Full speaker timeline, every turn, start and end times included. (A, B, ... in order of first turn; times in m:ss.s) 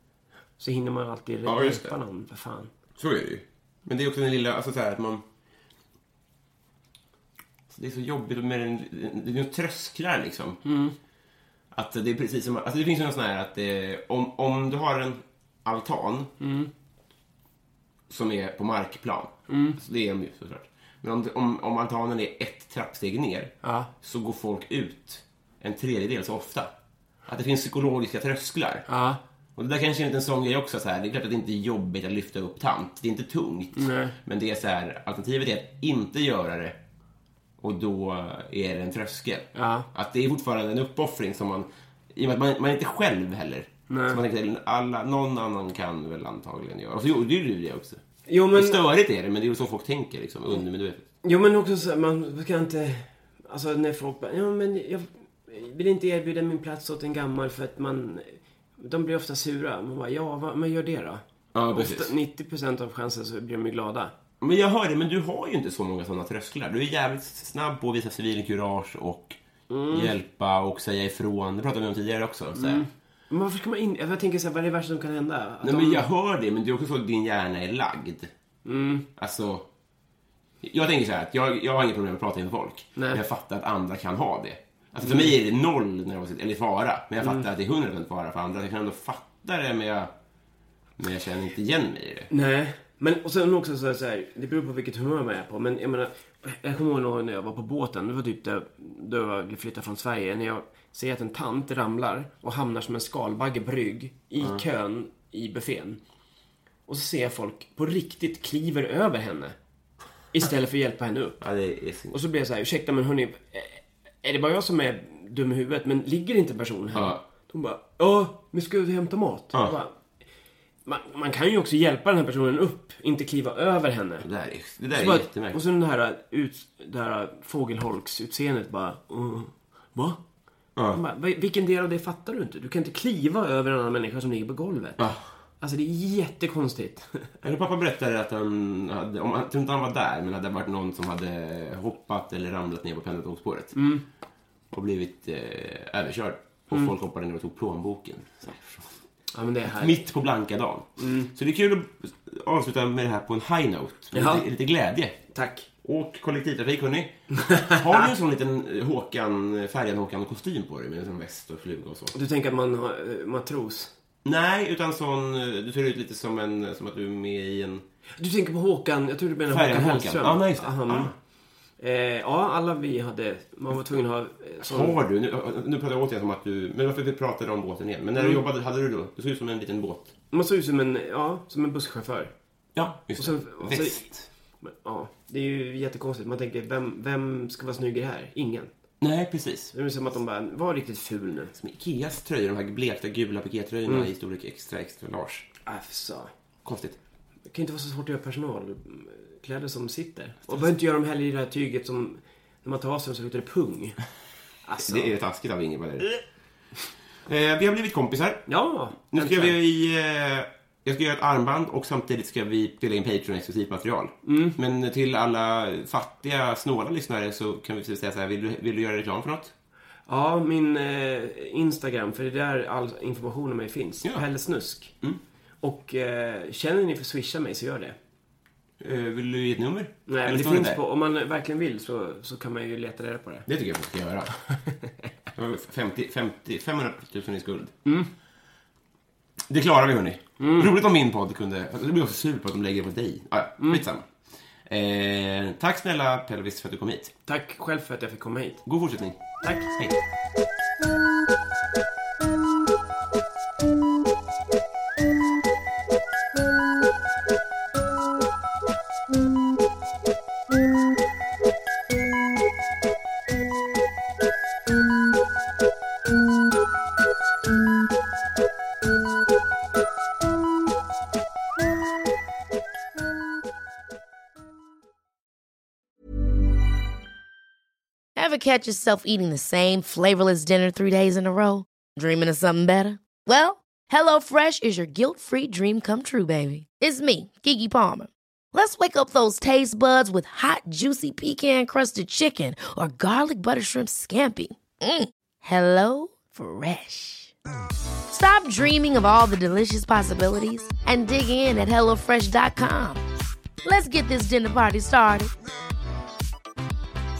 0:00.6-0:02.7 A
0:01.4-0:02.0 B
0:03.0-0:05.2 B
0:07.7-0:10.6 B
0:10.6-0:10.9 A
0:11.7-0:16.3 B
0:16.4-0:16.7 A
0:18.1-0:26.7 B
0:19.5-0:19.8 A
0:23.6-0:23.9 A
0:27.3-0:28.9 B
0:28.9-0:29.2 A
0:29.6-0:36.8 B
0:33.7-0:34.1 A
0:37.6-0:48.0 B
0:39.5-0:39.9 A
0:43.9-0:44.2 A
0:48.3-0:48.8 A
0:48.5-0:51.0 B
0:51.2-1:04.1 A
1:01.5-1:02.1 B
1:04.4-1:09.4 B
1:09.7-1:10.1 A
1:09.9-1:12.8 B
1:12.5-1:16.1 A
1:15.6-1:18.3 B
1:18.6-1:19.1 A
1:19.2-1:19.6 B
1:20.6-1:30.1 B
1:23.0-1:23.2 A
1:25.0-1:25.3 A
1:31.0-1:32.3 B
1:32.3-1:46.0 A
1:46.9-1:49.6 A
1:50.3-1:51.4 A
1:51.4-1:52.2 B
1:52.1-1:59.9 A
1:56.9-1:57.2 B
2:00.8-2:04.3 A
2:04.2-2:05.6 B
2:04.9-2:10.2 A
2:10.8-2:11.0 B
2:10.9-2:15.0 A
2:15.0-2:15.3 B
2:15.6-2:17.4 A
2:17.4-2:23.8 B
2:23.8-2:24.0 A
2:24.7-2:28.9 B
2:29.3-2:30.0 A
2:29.8-2:35.2 B
2:31.0-2:31.3 A
2:34.1-2:34.4 A
2:35.3-2:35.7 A
2:35.8-2:42.1 B
2:37.4-2:38.0 A
2:42.1-2:43.9 A
2:44.2-2:47.8 B
2:48.2-2:51.1 A
2:49.5-2:51.1 B
2:51.8-2:55.0 A
2:54.6-3:00.1 B
2:58.2-2:58.4 A
3:00.3-3:02.3 A
3:02.7-3:04.3 B
3:03.2-3:04.1 A
3:04.6-3:08.7 A
3:09.0-3:09.7 B
3:09.7-3:11.5 A
3:11.5-3:15.5 B
3:15.6-3:16.3 A
3:16.6-3:17.0 B
3:17.4-3:24.0 A
3:24.6-3:25.1 A
3:24.8-3:26.2 B
3:27.3-3:28.5 B
3:28.5-3:29.5 A
3:29.1-3:39.5 B
3:34.2-3:34.6 A
3:40.1-3:44.9 A
3:45.6-3:47.9 A
3:48.8-3:50.8 B
3:50.1-3:53.5 A
3:53.5-3:54.4 B
3:55.3-3:57.7 B
3:57.8-3:58.1 A
3:59.5-4:04.0 B
4:00.4-4:00.7 A
4:04.7-4:07.1 B
4:07.3-4:08.6 A
4:08.6-4:10.0 B
4:09.4-4:09.7 A
4:38.2-4:57.3 C
4:58.1-5:03.0 C
5:03.6-5:05.3 C